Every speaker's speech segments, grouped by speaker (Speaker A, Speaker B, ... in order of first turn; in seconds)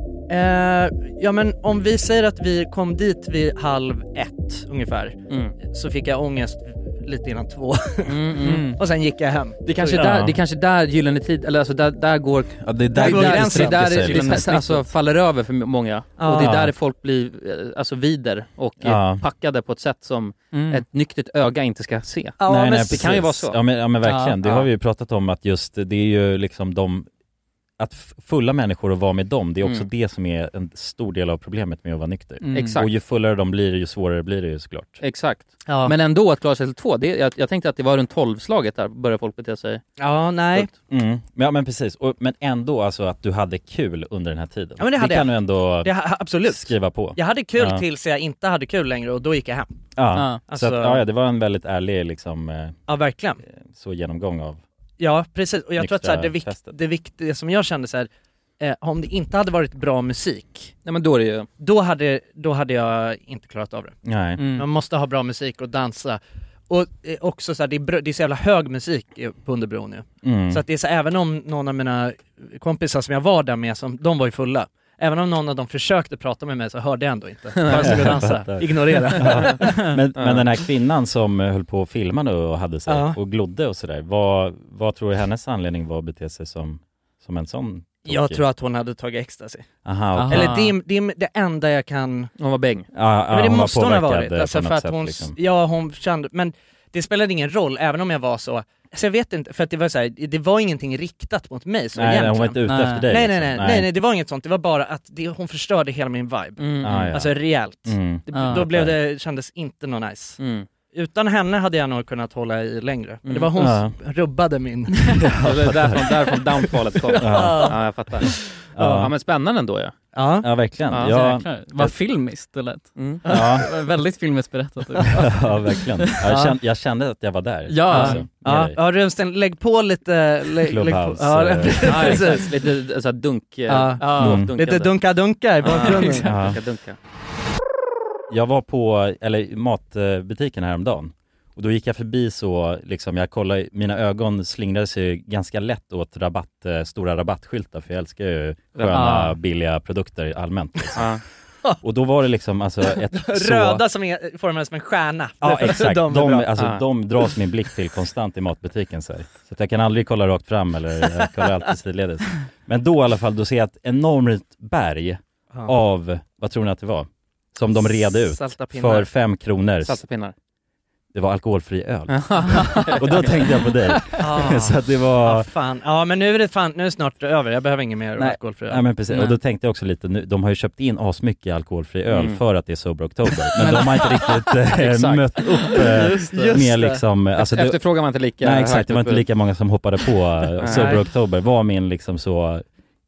Speaker A: 0.3-10.1, 12.9-14.6, 16.2-16.5, 22.4-23.1, 35.6-35.9, 40.0-40.7, 44.8-49.7, 50.5-51.0, 52.9-53.4, 55.0-58.1, 58.6-60.7, 61.6-63.9, 64.5-79.7, 82.9-83.2, 88.0-89.7, 90.2-92.3, 93.3-110.4, 110.9-115.2, 117.3-117.8, 120.1-120.5, 123.2-123.6, 125.0-125.2, 126.2-126.5, 127.9-132.4, 133.7-136.3, 152.8-156.5, 167.7-169.1, 174.2-178.8, 185.7-187.0, 190.7-191.0
Speaker B: 5.3-5.5, 8.1-8.8, 9.6-23.6, 32.5-32.9, 35.0-39.8, 60.8-61.5, 64.4-64.7, 77.6-78.1, 80.2-80.5, 92.4-92.9, 106.6-107.1, 110.4-110.7, 113.2-113.5, 115.4-119.9, 120.9-121.2, 123.0-123.2, 131.8-137.0, 148.7-149.1, 156.6-156.8, 169.8-170.3, 172.1-173.7, 182.1-182.4, 184.8-185.2, 187.4-189.2, 190.6-191.0
Speaker C: 9.9-10.4, 12.6-14.5, 16.4-16.7, 18.8-19.2, 22.4-27.1, 27.8-35.0, 40.7-47.8, 50.0-52.8, 53.6-54.6, 55.8-56.7, 64.0-64.4, 70.2-70.6, 77.7-88.4, 89.8-90.5, 92.9-95.3, 101.9-103.9, 106.8-109.0, 113.6-113.9, 115.3-116.1, 117.2-117.8, 118.7-119.1, 120.4-121.9, 123.3-123.7, 125.2-128.8, 130.6-132.3, 134.2-134.5, 136.2-136.6, 138.3-151.1, 151.8-153.8, 155.4-170.0, 171.1-175.5, 178.2-187.8, 188.4-192.7
Speaker D: 14.4-14.8, 20.5-20.8, 24.0-24.4, 32.4-32.7, 90.1-90.7, 102.7-103.0, 108.3-108.6, 121.0-125.5, 126.0-126.3, 127.7-128.2, 134.0-134.4, 148.9-149.4, 183.6-186.6